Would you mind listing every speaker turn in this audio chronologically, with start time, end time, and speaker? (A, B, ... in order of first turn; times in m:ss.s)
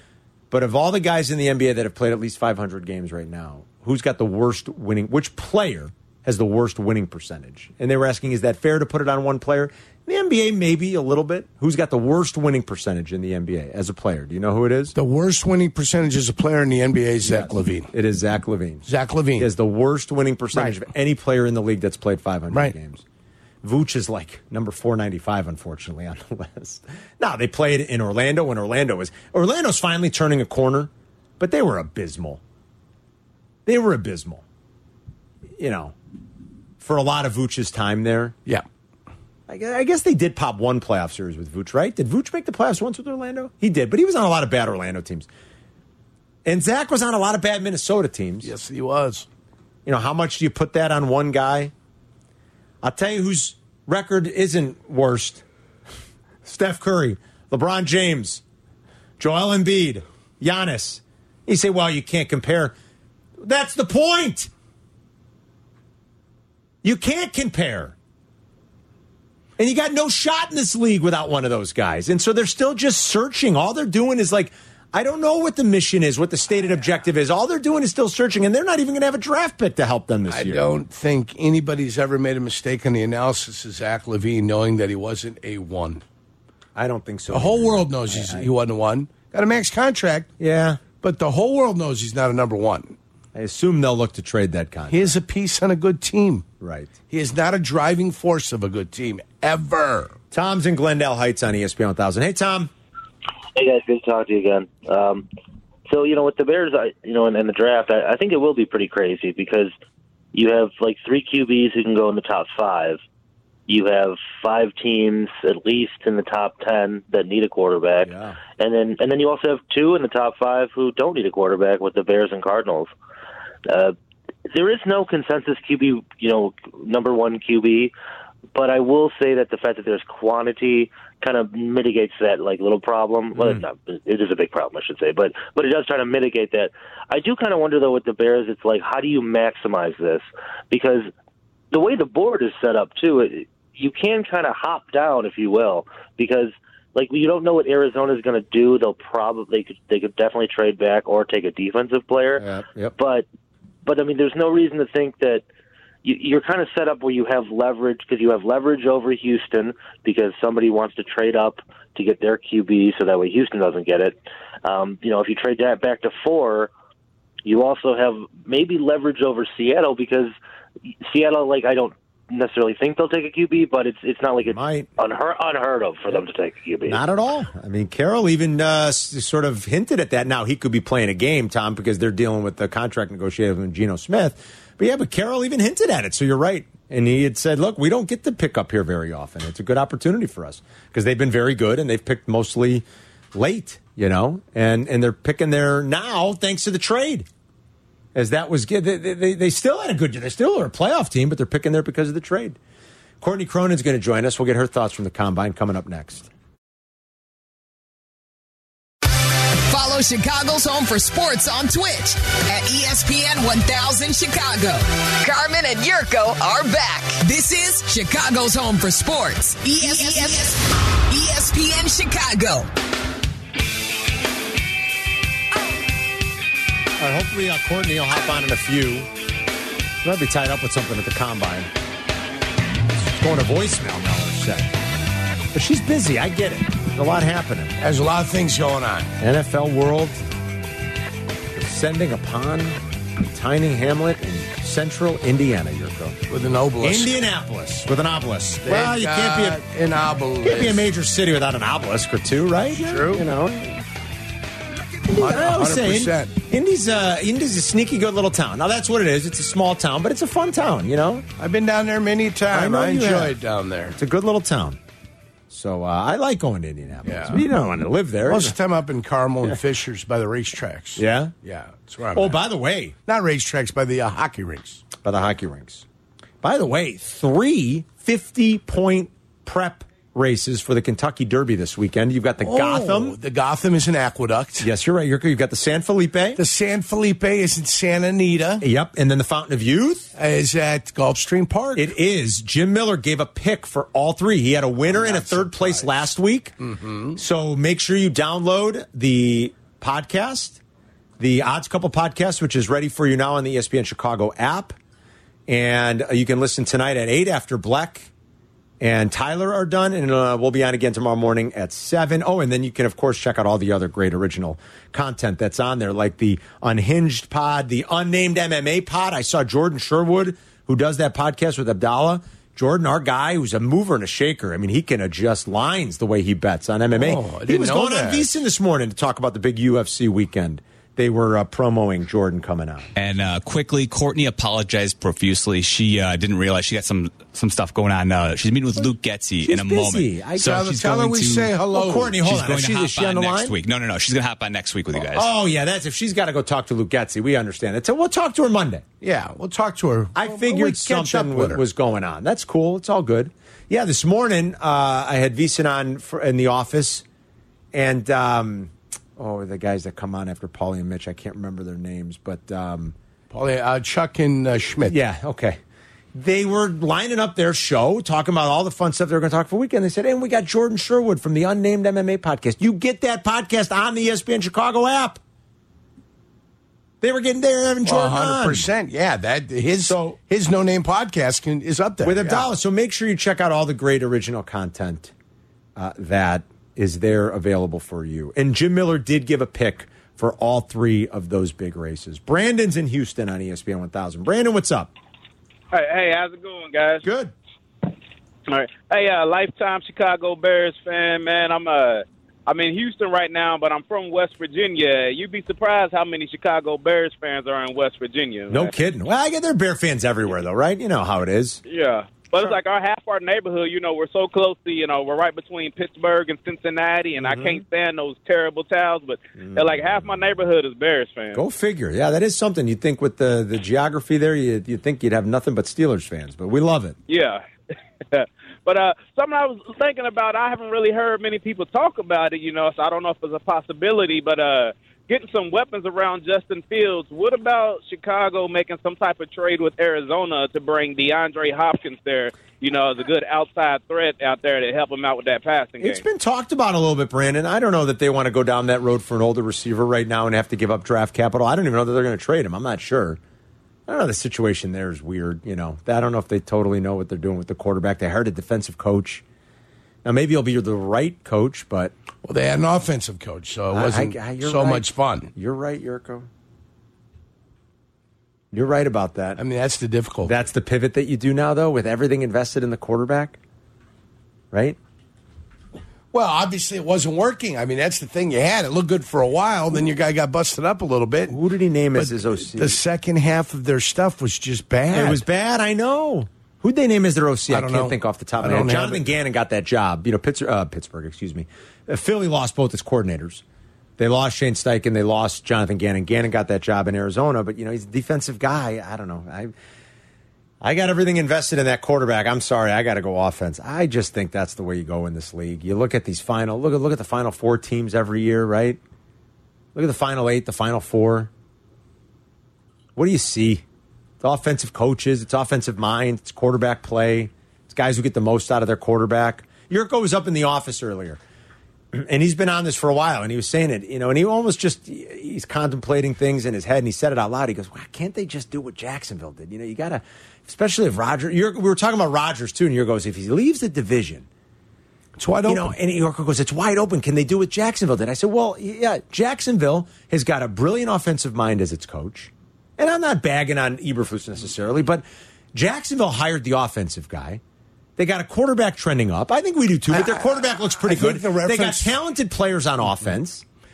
0:00.5-0:14.9 A
0:14.9-0:17.9 B
0:17.2-0:23.0 A
0:18.8-0:19.5 B
0:23.6-0:32.4 A
0:33.6-0:34.4 A
0:35.6-0:35.9 A
0:36.8-0:38.4 A
0:39.5-0:45.3 A
0:46.4-0:48.5 A
0:48.4-0:49.2 B
0:49.8-0:51.7 A
0:52.8-0:55.4 A
0:56.4-0:58.4 A
0:59.2-1:02.7 A
1:03.4-1:04.5 A
1:06.8-1:08.0 A
1:09.6-1:20.6 A
1:20.3-1:26.0 B
1:26.7-1:28.5 A
1:27.3-1:30.3 B
1:30.4-1:30.8 A
1:30.9-1:32.9 B
1:33.3-1:35.2 A
1:34.9-1:36.5 B
1:36.6-1:37.0 A
1:37.1-1:40.1 B
1:40.3-1:42.7 A
1:43.5-1:45.2 C
1:45.9-1:49.7 C
1:50.3-1:53.0 C
1:53.7-2:02.9 C
1:58.0-1:58.4 A
2:03.7-2:03.9 C
2:04.5-2:07.9 C
2:08.5-2:21.1 C
2:13.4-2:13.6 A
2:21.7-2:32.4 C
2:32.4-2:32.9 A
2:33.0-2:33.2 C
2:33.8-2:35.4 C
2:36.0-2:46.7 C
2:47.4-2:50.3 C
2:51.0-2:57.0 C
2:54.4-2:54.9 A
2:56.8-3:17.3 A
3:18.1-3:22.6 A
3:23.2-3:26.3 A
3:29.6-3:42.7 D
3:47.0-3:49.1 A
3:50.0-3:51.7 A
3:53.0-3:54.7 A
3:55.5-3:57.7 A
3:57.8-3:59.1 B
3:59.2-4:00.2 A
4:01.5-4:06.2 A
4:06.3-4:07.2 B
4:06.8-4:09.6 A
4:08.6-4:10.8 B
4:10.4-4:13.8 A
4:12.7-4:13.2 B
4:15.1-4:21.3 A
4:15.1-4:16.4 B
4:21.4-4:24.0 B
4:22.5-4:23.3 A
4:24.0-4:24.8 A
4:25.5-4:28.5 A
4:27.0-4:27.4 B
4:28.3-4:32.4 B
4:31.0-4:31.3 A
4:32.1-4:32.9 A
4:33.1-4:34.8 B
4:35.0-4:35.8 A
4:36.4-4:43.2 A
4:42.4-4:44.7 B
4:44.6-4:46.4 A
4:46.4-4:48.6 B
4:48.6-4:50.1 A
4:50.2-4:51.9 B
4:51.7-4:56.6 A
4:54.9-4:55.9 B
4:56.6-4:57.2 B
4:57.1-5:00.6 A
5:01.2-5:04.8 A
5:05.5-5:08.1 A
5:08.8-5:32.9 A
5:26.9-5:28.3 B
5:33.0-5:41.5 E
5:39.4-5:40.8 A
5:40.4-5:42.2 B
5:41.7-5:43.6 A
5:42.2-5:45.3 E
5:44.9-5:48.8 A
5:49.0-5:51.6 B
5:50.2-5:57.0 A
5:57.7-6:03.0 A
6:03.3-6:05.0 B
6:04.9-6:05.6 A
6:06.1-6:15.2 A
6:17.0-6:18.7 A
6:17.8-6:22.5 B
6:19.8-6:20.2 A
6:22.0-6:25.1 A
6:25.8-6:34.9 A
6:35.7-6:37.0 F
6:37.0-6:37.3 A
6:38.5-6:48.8 F
6:48.5-6:51.6 A
6:51.6-7:01.4 F
6:57.2-6:57.6 A
6:59.4-7:00.2 A
7:01.3-7:07.0 A
7:07.1-7:07.4 F
7:08.1-7:26.0 F
7:25.8-7:33.2 A
7:33.9-7:39.2 A
7:40.0-7:41.9 A
7:42.2-7:45.3 B
7:43.7-7:46.3 A
7:48.5-7:49.4 A
7:49.4-7:50.3 B
7:50.2-7:53.4 A
7:54.5-7:54.8 A
7:56.1-8:01.4 B
8:01.3-8:02.8 A
8:02.0-8:05.2 B
8:04.9-8:13.4 A
8:07.5-8:09.0 B
8:14.0-8:19.5 A
8:20.6-8:28.8 A
8:29.7-8:31.3 A
8:33.0-8:33.6 A
8:34.2-8:41.2 A
8:41.9-8:54.3 A
8:55.2-8:55.7 B
8:55.4-9:07.4 A
9:08.0-9:13.4 A
9:09.9-9:11.9 B